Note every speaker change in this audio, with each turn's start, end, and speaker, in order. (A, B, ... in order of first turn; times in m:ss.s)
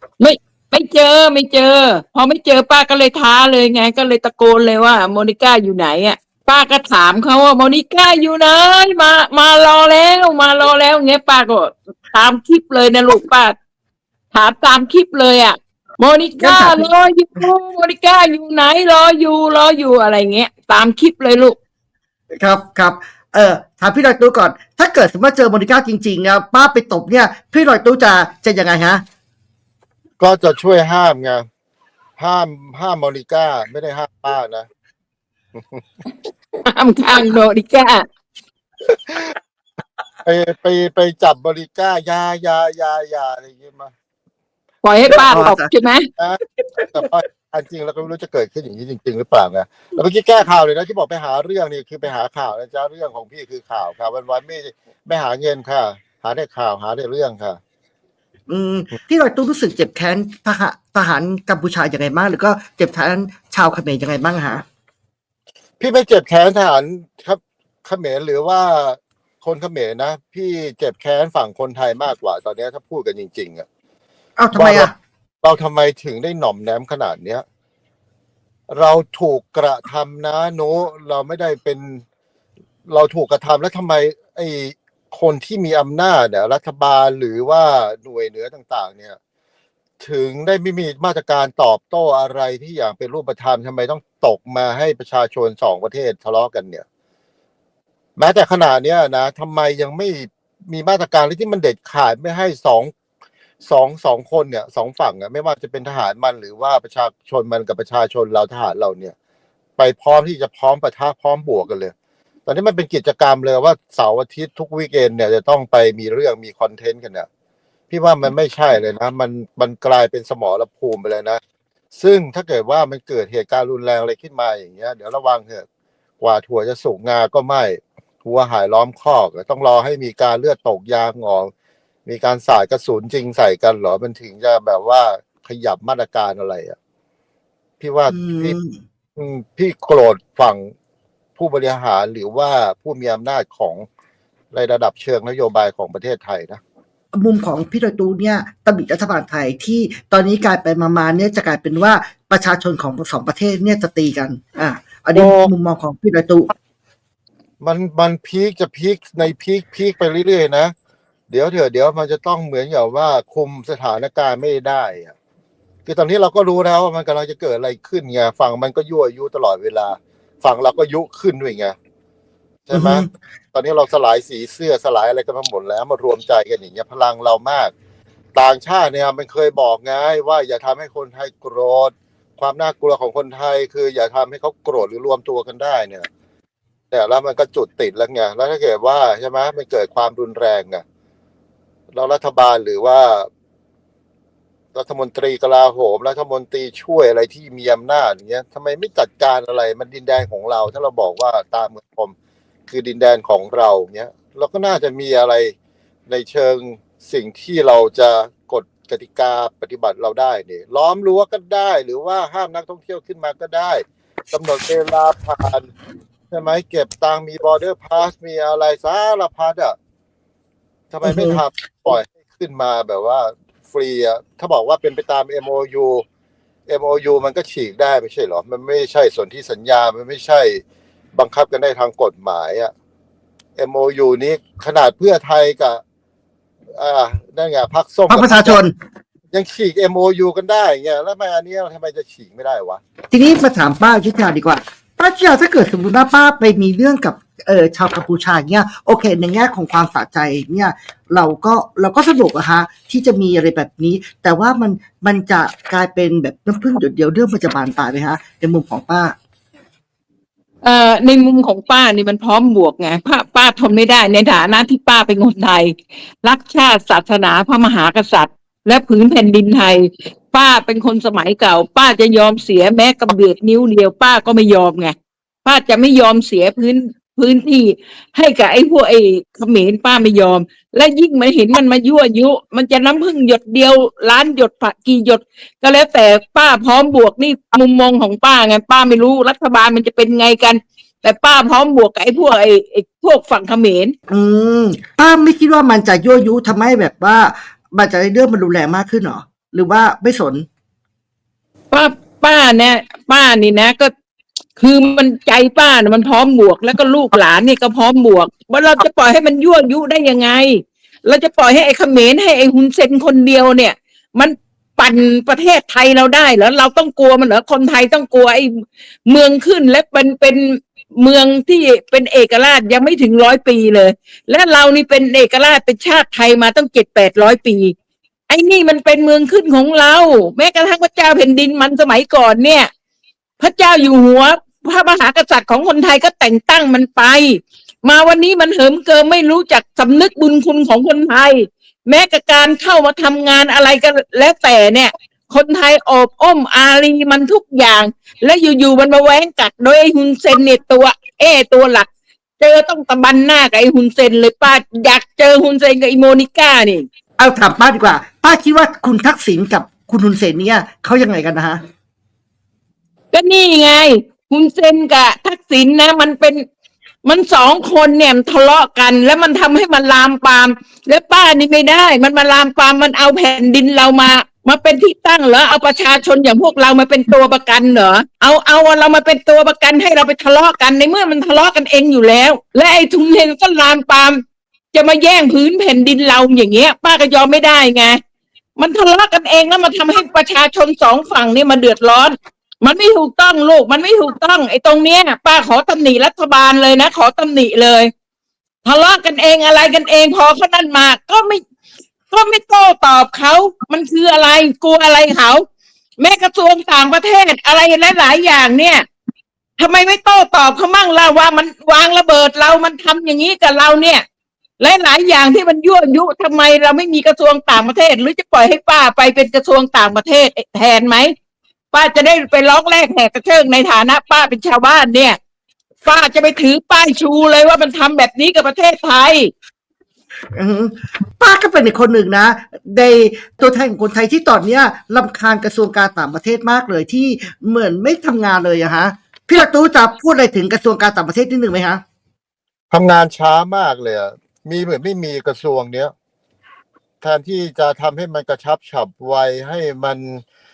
0:00.2-0:13.5 A
0:14.3-0:21.6 A
0:16.4-0:16.9 B
0:22.3-0:29.0 B
0:30.2-0:31.4 C
0:32.2-0:34.7 C
0:35.6-0:35.8 C
0:36.6-0:38.0 A
0:39.1-0:39.3 C
0:40.2-0:43.9 C
0:44.8-0:46.1 A
0:45.0-0:45.7 B
0:46.2-0:57.6 C
0:46.6-0:47.0 B
0:58.5-1:04.6 B
1:05.8-1:13.6 C
1:14.4-1:14.9 B
1:14.5-1:14.9 C
1:15.4-1:17.4 C
1:18.7-1:22.0 C
1:22.9-1:29.2 C
1:30.0-1:36.8 C
1:38.2-1:42.9 C
1:43.6-1:49.1 C
1:49.8-1:51.9 C
1:52.4-1:57.3 C
1:57.9-2:01.4 C
2:01.9-2:05.6 C
2:06.2-2:11.5 C
2:12.0-2:16.8 C
2:17.8-2:18.6 C
2:18.1-2:18.8 B
2:19.2-2:20.7 C
2:21.4-2:23.8 C
2:24.5-2:26.6 C
2:27.1-2:36.5 B
2:35.1-2:35.5 C
2:37.6-2:40.7 C
2:41.3-2:45.1 C
2:45.8-2:51.7 C
2:52.7-2:57.7 C
2:52.7-2:53.1 B
2:58.3-3:06.1 C
3:06.9-3:10.8 C
3:11.9-3:13.3 C
3:14.7-3:22.1 C
3:22.7-3:25.5 C
3:26.1-3:35.7 C
3:36.3-3:39.8 C
3:40.9-3:46.0 C
3:41.0-3:41.4 B
3:46.7-3:50.6 C
3:51.1-3:52.7 C
3:53.6-3:55.8 C
3:56.7-3:58.6 C
3:58.1-3:58.7 B
3:59.3-4:02.8 C
4:03.1-4:19.1 B
4:20.6-4:34.9 A
4:35.4-4:53.9 A
4:54.1-5:00.4 B
5:01.7-5:03.9 A
5:04.6-5:27.7 A
5:28.3-5:32.7 A
5:33.4-5:51.9 A
5:52.4-5:56.9 A
5:57.2-6:01.6 B
6:03.1-6:06.4 A
6:07.0-6:24.2 A
6:24.7-6:28.0 A
6:28.6-6:37.9 A
6:38.6-6:41.4 A
6:42.1-6:45.4 A
6:46.0-6:48.8 A
6:49.6-6:54.0 A
6:54.6-7:01.1 A
7:01.7-7:05.2 A
7:05.8-7:09.3 A
7:10.3-7:21.8 B
7:22.7-7:25.9 C
7:27.0-7:30.2 C